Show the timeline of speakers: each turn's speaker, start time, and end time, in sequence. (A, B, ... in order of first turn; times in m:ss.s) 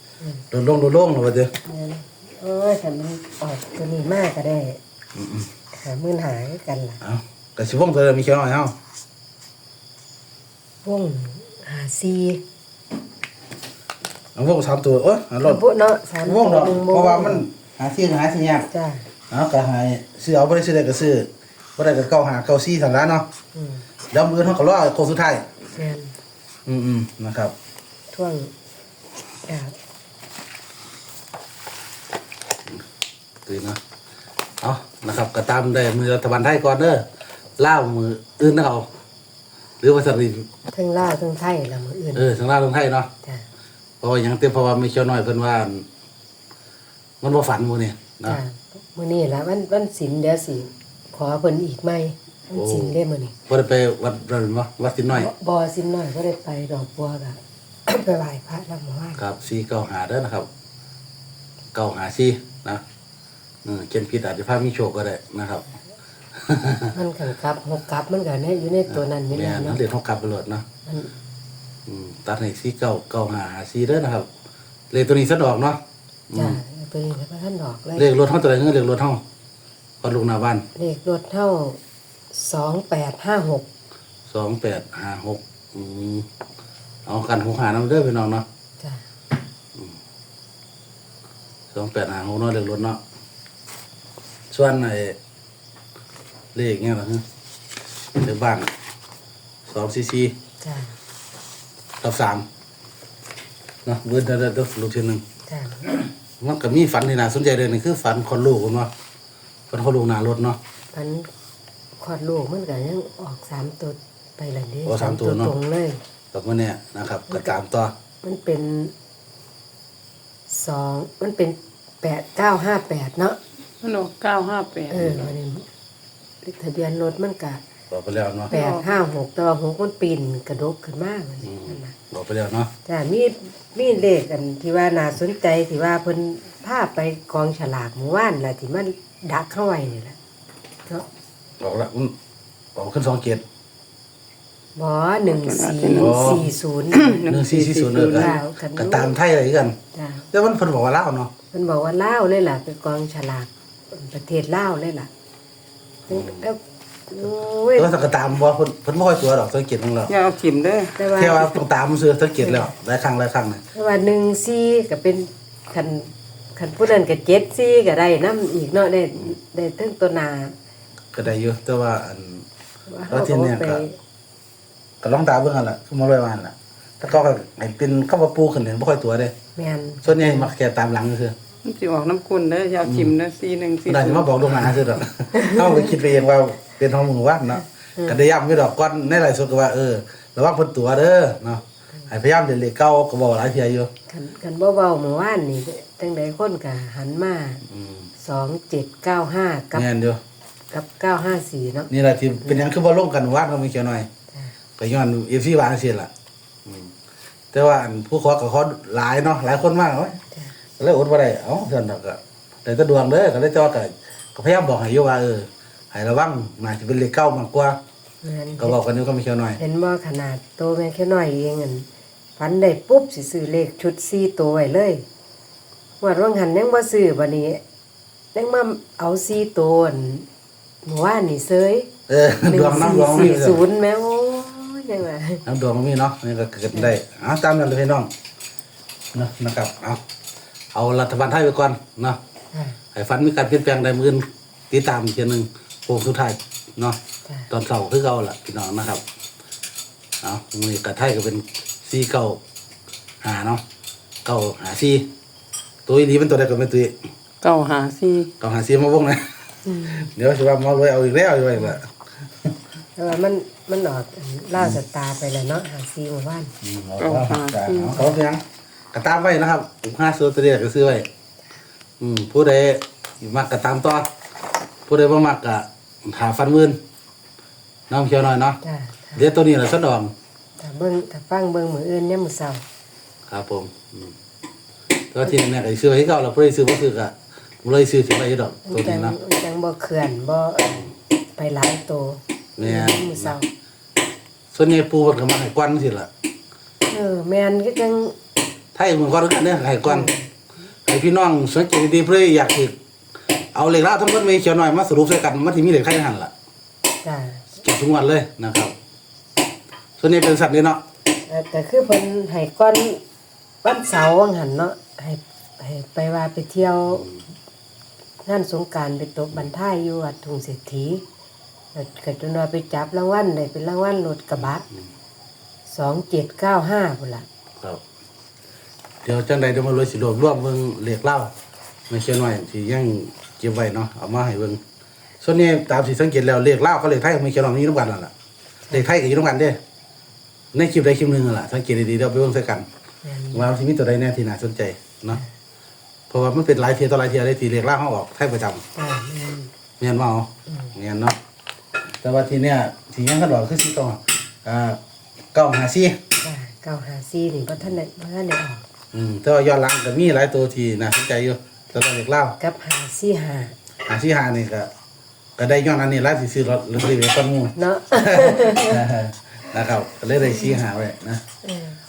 0:00.5-0:01.5 A
0:01.6-0:04.8 B
0:05.2-0:05.5 A
0:05.7-0:07.0 B
0:07.0-0:08.8 A
0:10.8-0:12.4 B
0:14.4-0:15.6 A
0:15.4-0:17.5 B
0:16.2-0:18.7 A
0:18.7-0:19.1 B
0:19.3-0:23.3 A
0:23.5-0:23.9 B
0:24.1-0:25.5 A
0:25.7-0:26.2 B
0:26.7-0:27.5 A
0:28.1-0:28.5 B
0:29.5-0:29.8 B
0:33.4-0:33.8 A
0:34.6-0:37.1 A
0:37.6-0:38.9 A
0:39.8-0:40.5 A
0:40.7-0:42.3 B
0:42.2-0:43.1 A
0:44.0-0:45.9 A
0:47.2-0:48.4 A
0:48.2-0:53.4 B
0:52.5-0:53.0 A
0:53.5-0:55.3 A
0:55.1-0:59.2 B
0:59.2-1:00.5 A
1:01.7-1:02.8 A
1:03.6-1:05.7 A
1:06.4-1:06.9 A
1:06.9-1:09.8 B
1:09.0-1:10.6 A
1:10.9-1:11.1 B
1:11.9-1:14.3 A
1:14.9-1:16.6 A
1:16.3-1:18.1 B
1:18.0-1:19.2 A
1:20.0-1:20.7 A
1:20.8-1:21.8 B
1:22.3-1:23.7 B
1:24.3-1:26.3 A
1:27.1-1:28.4 A
1:28.8-1:29.1 B
1:31.7-1:33.0 A
1:34.5-1:35.2 A
1:36.5-1:37.2 A
1:38.2-1:38.7 A
1:39.7-1:40.3 A
1:40.6-1:41.0 B
1:42.0-1:42.5 A
1:43.8-1:45.2 A
1:45.5-1:46.0 B
1:46.4-1:48.9 A
1:49.7-1:50.6 A
1:50.9-1:51.3 B
1:52.0-1:56.0 B
1:54.9-1:55.5 A
1:56.3-1:57.9 A
1:58.2-1:58.9 B
2:00.5-2:03.4 B
2:03.8-2:05.2 C
2:04.9-2:05.7 B
2:05.0-2:05.3 A
2:06.4-2:07.6 B
2:07.9-2:08.5 A
2:08.5-2:09.0 C
2:08.5-2:12.0 B
2:11.4-2:12.7 A
2:12.8-2:20.2 B
2:21.6-2:22.1 A
2:22.8-2:23.4 A
2:24.8-2:27.3 B
2:25.3-2:28.4 C
2:26.0-2:26.5 A
2:27.3-2:29.8 A
2:28.0-2:29.1 B
2:29.9-2:30.3 B
2:30.3-2:31.3 A
2:31.5-2:35.1 B
2:36.1-2:36.4 A
2:36.1-2:37.9 B
2:37.8-2:40.1 A
2:40.1-2:41.0 C
2:41.0-2:41.6 B
2:41.1-2:43.6 A
2:42.4-2:42.7 B
2:43.7-2:50.6 B
2:51.1-2:52.4 A
2:52.9-2:54.0 B
2:53.1-2:53.8 A
2:55.0-2:59.3 A
2:59.6-3:00.5 B
3:00.0-3:01.3 A
3:01.6-3:04.3 C
3:02.8-3:03.2 A
3:03.9-3:13.9 A
3:05.3-3:05.8 B
3:14.1-3:17.6 B
3:17.7-3:18.1 A
3:18.2-3:19.9 B
3:19.8-3:20.2 A
3:20.7-3:21.9 B
3:21.9-3:24.1 A
3:24.8-3:26.1 A
3:26.7-3:26.9 A
3:27.5-3:30.2 A
3:30.8-3:37.8 A
3:38.2-3:38.8 B
3:38.6-3:39.6 A
3:39.6-3:45.0 B
3:46.0-3:47.6 B
3:48.3-3:50.3 B
3:50.8-3:51.9 B
3:52.1-3:53.6 A
3:52.4-3:55.4 B
3:55.4-3:58.1 A
3:59.1-4:00.0 A
4:00.7-4:02.2 A
4:02.5-4:02.8 B
4:02.9-4:07.0 A
4:07.5-4:09.0 A
4:10.2-4:12.4 A
4:13.2-4:13.6 A
4:14.2-4:15.1 A
4:15.9-4:17.0 A
4:17.4-4:18.3 C
4:18.4-4:21.9 A
4:19.7-4:20.1 B
4:23.0-4:26.5 B
4:26.6-4:31.1 A
4:27.0-4:28.1 C
4:32.0-4:34.1 A
4:34.9-4:36.8 A
4:37.9-4:38.6 A
4:38.6-4:39.3 B
4:39.2-4:40.1 A
4:40.6-4:42.6 B
4:43.3-4:44.1 A
4:45.1-4:49.2 A
4:48.7-4:53.5 B
4:52.6-4:53.4 A
4:54.5-4:56.1 A
4:56.9-4:58.2 B
4:58.8-5:00.1 A
4:59.8-5:00.3 B
5:00.9-5:02.8 A
5:03.5-5:06.3 A
5:07.0-5:07.5 B
5:07.6-5:08.7 A
5:10.0-5:10.8 A
5:11.3-5:13.0 B
5:13.6-5:17.1 B
5:18.2-5:21.0 B
5:21.7-5:24.7 B
5:25.7-5:27.3 B
5:29.0-5:31.3 A
5:31.9-5:34.6 A
5:35.2-5:38.1 A
5:38.7-5:39.6 A
5:40.5-5:42.7 A
5:43.0-5:43.5 B
5:43.3-5:45.2 A
5:46.1-5:48.6 A
5:48.8-5:49.5 B
5:49.8-5:51.2 A
5:52.0-5:54.8 A
5:55.3-5:56.0 A
5:56.2-5:58.6 B
5:58.9-6:02.4 A
6:02.4-6:03.6 B
6:03.9-6:04.7 A
6:05.4-6:11.2 A
6:07.6-6:08.9 B
6:11.4-6:11.8 B